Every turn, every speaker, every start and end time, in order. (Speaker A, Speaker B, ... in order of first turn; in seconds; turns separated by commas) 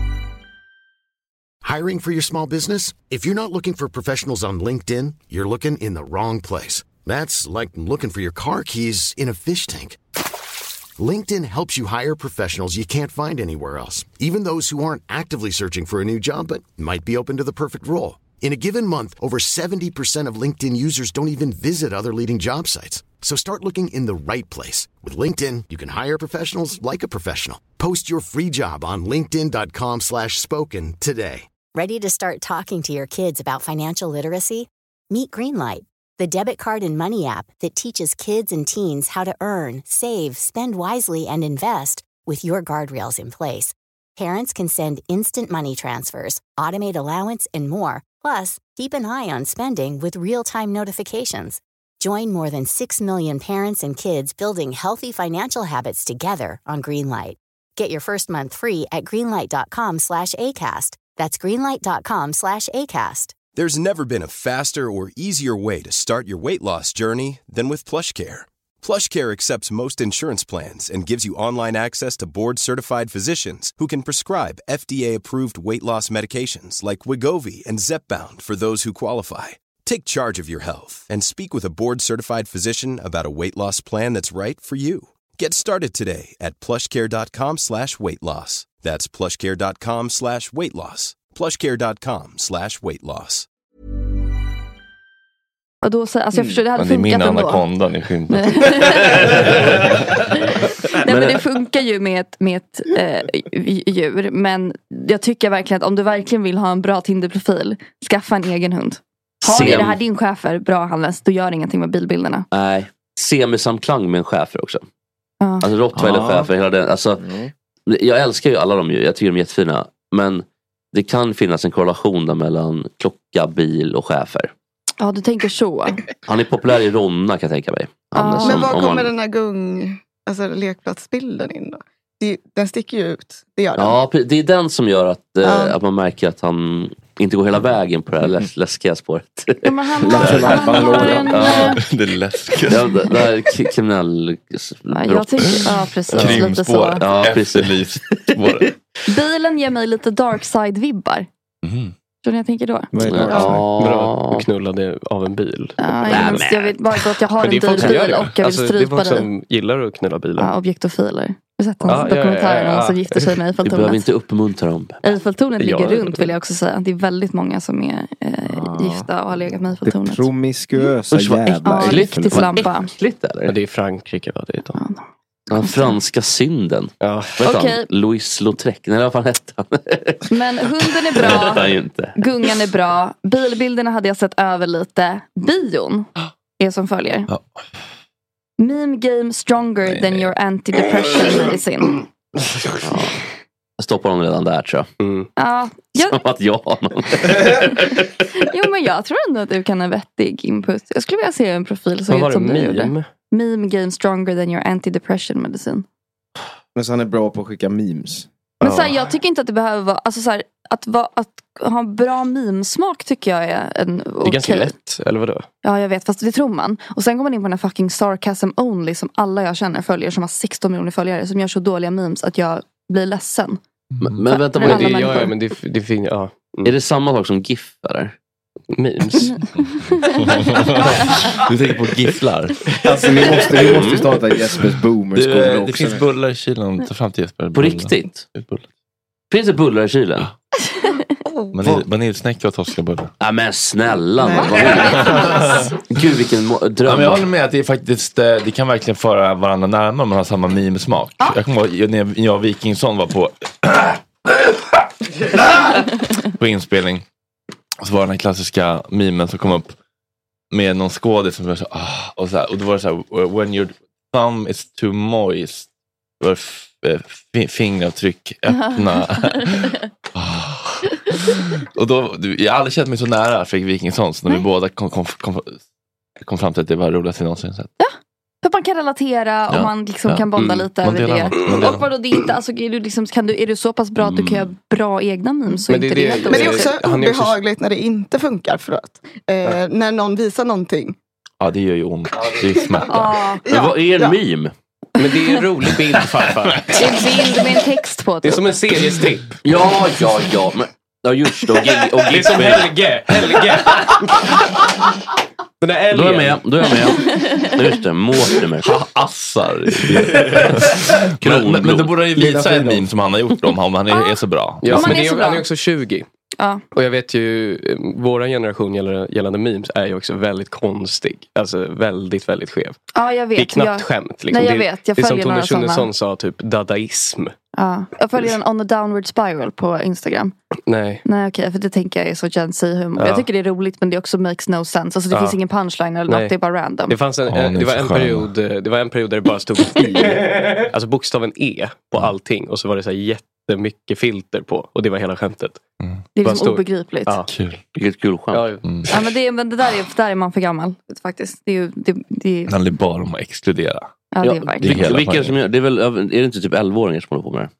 Speaker A: 1.6-10.0, Speaker A: 11.0-31.5, Speaker B: 31.7-63.4, Speaker C: 63.5-93.5, Speaker D: 95.8-97.6, Speaker E: 96.7-100.2, Speaker D: 98.3-99.3, Speaker D: 100.3-112.5, Speaker F: 101.1-101.3, Speaker F: 109.4-110.0, Speaker F: 112.5-114.8, Speaker D: 115.4-115.7, Speaker F: 115.6-117.2, Speaker G: 115.9-116.5, Speaker G: 117.2-117.5, Speaker F: 117.9-124.5, Speaker D: 125.0-126.0, Speaker F: 126.3-129.1, Speaker D: 128.1-128.7, Speaker H: 128.4-134.0, Speaker F: 133.7-141.7, Speaker H: 135.4-135.8, Speaker D: 139.6-141.8, Speaker G: 140.0-141.7, Speaker E: 141.8-143.0, Speaker F: 142.7-146.2, Speaker D: 144.9-147.0, Speaker E: 145.6-148.7, Speaker F: 147.0-148.6, Speaker D: 149.1-151.3, Speaker E: 151.6-151.9, Speaker D: 152.2-153.5, Speaker G: 152.9-153.6, Speaker F: 153.0-154.5, Speaker I: 153.7-156.5, Speaker D: 155.8-159.3, Speaker F: 156.1-157.0, Speaker I: 157.4-160.5, Speaker F: 157.8-158.0, Speaker D: 160.4-164.1, Speaker I: 161.8-163.3, Speaker F: 163.6-165.0, Speaker D: 165.0-170.3, Speaker I: 165.6-166.3, Speaker G: 168.4-169.1, Speaker G: 169.8-172.6, Speaker F: 171.1-173.5, Speaker D: 171.6-172.9, Speaker I: 173.4-174.8, Speaker D: 174.8-175.9, Speaker F: 175.5-182.5, Speaker I: 177.0-177.4, Speaker D: 177.4-177.8, Speaker D: 180.3-181.6, Speaker D: 182.2-187.3, Speaker E: 187.3-187.6, Speaker D: 188.6-192.0, Speaker E: 189.8-190.3, Speaker F: 192.8-193.1, Speaker F: 193.8-194.9, Speaker I: 195.0-195.3, Speaker D: 195.4-196.2, Speaker F: 196.0-198.1, Speaker D: 198.4-205.8, Speaker I: 202.1-203.1, Speaker G: 206.7-208.3, Speaker D: 208.6-214.7, Speaker I: 208.6-209.0, Speaker I: 214.2-215.4, Speaker D: 215.6-223.6, Speaker F: 224.0-225.3, Speaker D: 224.3-225.3, Speaker I: 224.6-226.7, Speaker F: 226.6-228.1, Speaker I: 228.7-229.4, Speaker D: 229.2-230.4, Speaker E: 230.2-232.6, Speaker G: 232.8-236.1, Speaker F: 233.5-234.1, Speaker E: 233.8-234.0, Speaker E: 235.1-238.7, Speaker F: 237.5-238.2, Speaker F: 239.3-240.3, Speaker D: 240.7-241.0, Speaker H: 241.2-241.7, Speaker E: 241.5-243.1, Speaker F: 243.2-247.2, Speaker H: 244.2-245.3, Speaker D: 244.3-245.2, Speaker E: 244.9-245.7, Speaker E: 246.8-254.6, Speaker E: 255.4-257.0, Speaker E: 257.8-259.7, Speaker E: 260.5-265.7, Speaker E: 266.2-275.6, Speaker D: 268.7-269.2, Speaker E: 276.2-277.7, Speaker D: 277.8-286.7, Speaker E: 279.5-280.3, Speaker E: 280.8-281.9, Speaker F: 284.0-284.5, Speaker I: 285.7-287.4, Speaker H: 286.3-290.9, Speaker E: 291.4-293.2, Speaker H: 292.3-292.9, Speaker D: 292.9-293.4, Speaker H: 293.4-294.2, Speaker F: 293.5-294.5, Speaker I: 295.0-296.8, Speaker D: 296.7-298.5, Speaker I: 298.2-299.4, Speaker F: 299.4-302.8, Speaker I: 302.0-304.2, Speaker I: 305.6-306.4, Speaker F: 305.9-308.7, Speaker E: 308.6-315.0, Speaker I: 309.9-310.4, Speaker F: 310.7-312.0, Speaker I: 312.2-312.7, Speaker I: 314.6-316.1, Speaker D: 314.7-315.4, Speaker I: 316.7-322.8, Speaker D: 322.9-325.9, Speaker I: 323.4-327.3, Speaker D: 327.6-330.3, Speaker I: 330.7-331.0, Speaker D: 331.0-337.0, Speaker I: 333.0-333.3, Speaker I: 335.1-335.4, Speaker I: 336.1-336.3, Speaker I: 336.9-345.6, Speaker E: 337.3-338.3, Speaker D: 346.1-347.2, Speaker I: 346.2-347.3, Speaker E: 347.3-347.6, Speaker F: 347.7-348.6, Speaker I: 348.3-349.0, Speaker E: 348.6-348.9, Speaker D: 348.9-352.5, Speaker E: 352.5-353.9, Speaker D: 354.1-354.8, Speaker F: 354.2-357.5, Speaker E: 354.6-355.4